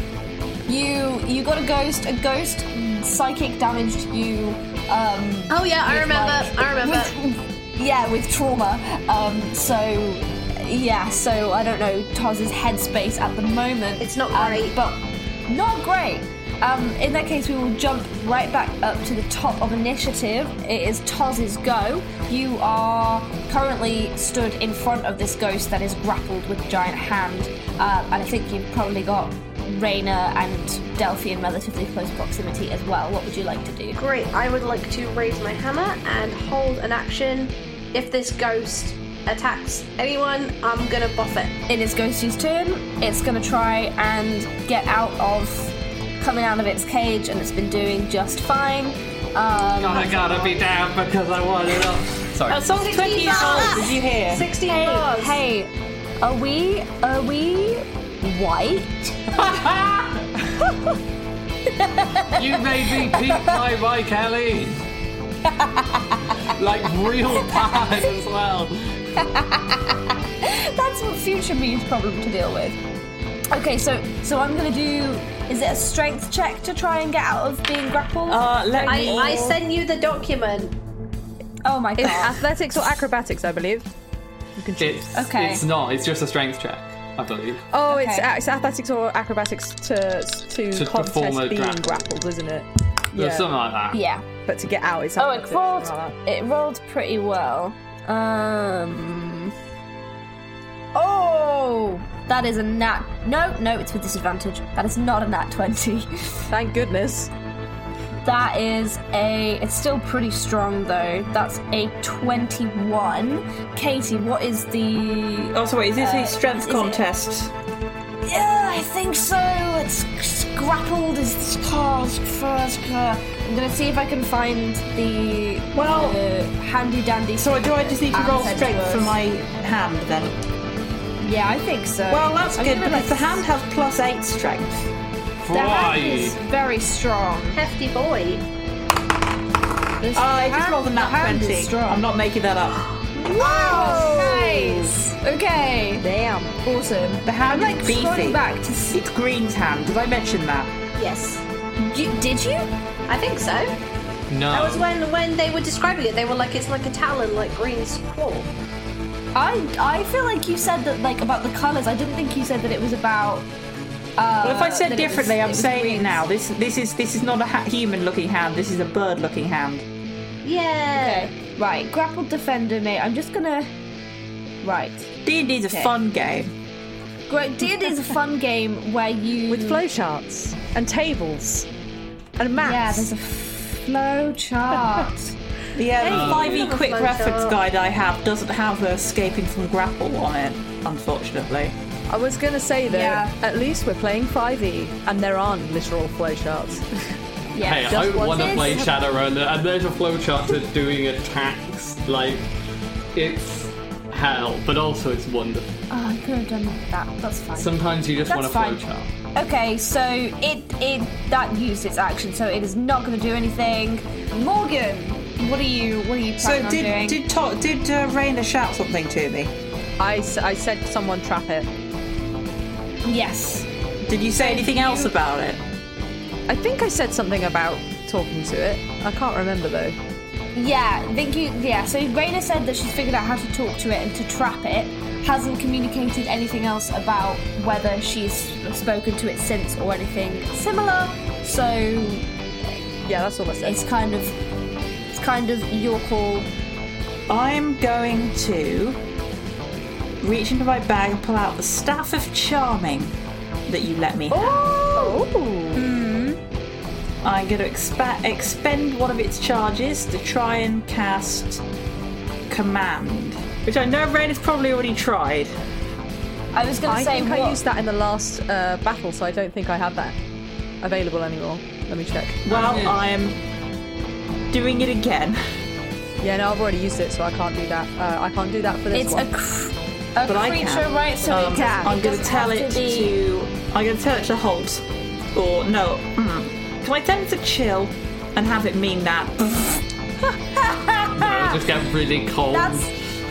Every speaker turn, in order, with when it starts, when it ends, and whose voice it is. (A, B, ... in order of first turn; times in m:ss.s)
0:00.7-0:34.0 A
0:05.5-0:07.1 B
0:14.0-0:14.8 B
0:33.9-0:41.6 B
0:41.7-0:50.3 A
0:49.8-0:52.6 C
0:52.5-0:54.5 D
0:52.7-0:55.4 B
0:53.4-0:53.8 A
0:54.6-0:59.2 A
0:59.4-1:00.2 C
1:01.8-1:02.4 A
1:02.3-1:04.8 C
1:03.0-1:03.5 A
1:05.4-1:06.2 A
1:06.5-1:09.0 C
1:09.2-1:12.8 A
1:13.5-1:19.5 A
1:18.3-1:19.6 D
1:18.9-1:20.8 B
1:21.6-1:22.4 A
1:22.0-1:23.9 E
1:24.6-1:25.1 E
1:24.8-1:27.6 C
1:25.1-1:25.6 A
1:27.7-1:33.5 E
1:27.9-1:28.3 A
1:30.7-1:32.0 C
1:33.1-1:34.0 C
1:33.9-1:34.2 A
1:34.4-1:36.1 E
1:35.2-1:39.5 A
1:40.9-1:46.4 A
1:46.5-1:47.3 E
1:48.2-1:57.0 A
1:55.5-1:57.5 D
1:58.2-2:09.2 A
2:05.7-2:06.2 D
2:07.4-2:10.3 D
2:11.2-2:13.4 A
2:12.1-2:14.9 D
2:15.4-2:16.4 C
2:15.5-2:17.6 A
2:17.5-2:18.4 B
2:20.0-2:22.0 A
2:20.1-2:22.8 D
2:23.2-2:26.0 A
2:23.4-2:24.7 E
2:26.0-2:26.6 E
2:26.6-2:29.0 A
2:27.2-2:30.7 D
2:30.9-2:31.4 B
2:31.8-2:32.7 A
2:33.1-2:33.8 B
2:34.3-2:34.9 C
2:34.5-2:38.5 B
2:39.3-2:43.5 A
2:44.2-2:46.2 A
2:44.4-2:49.8 D
2:50.4-2:51.2 B
2:50.9-2:53.7 A
2:54.6-2:55.1 A
2:55.2-2:56.5 D
2:57.3-2:59.8 A
2:59.5-3:01.7 E
3:02.4-3:03.1 E
3:02.6-3:05.4 A
3:05.7-3:11.7 D
3:06.0-3:07.6 B
3:06.0-3:06.7 C
3:12.1-3:16.8 E
3:12.9-3:13.3 A
3:17.5-3:18.9 A
3:17.6-3:22.5 C
3:17.9-3:18.9 E
3:23.1-3:25.8 C
3:25.9-3:27.7 A
3:27.6-3:29.1 C
3:28.3-3:28.8 A
3:29.3-3:37.2 A
3:36.4-3:39.5 D
3:40.0-3:41.7 E
3:43.0-3:43.7 A
3:44.1-3:45.6 D
3:44.4-3:45.1 A
3:46.5-3:50.0 E
3:50.5-4:02.2 A
4:03.0-4:03.8 E
4:03.6-4:04.4 A
4:05.1-4:06.5 A
4:07.3-4:09.0 D
4:10.2-4:13.1 D
4:13.7-4:14.7 D
4:14.3-4:15.8 E
4:14.9-4:15.2 A
4:15.7-4:16.4 A
4:17.2-4:21.6 D
4:22.5-4:25.5 D
4:26.5-4:27.6 A
4:26.8-4:30.2 E
4:30.8-4:32.5 E
4:32.4-4:33.4 D
4:32.5-4:33.0 C
4:34.5-4:35.4 D
4:36.2-4:39.3 E
4:38.9-4:43.2 A
4:40.2-4:49.8 D
4:50.3-4:51.6 A
4:51.2-4:52.9 C
4:52.5-4:52.9 A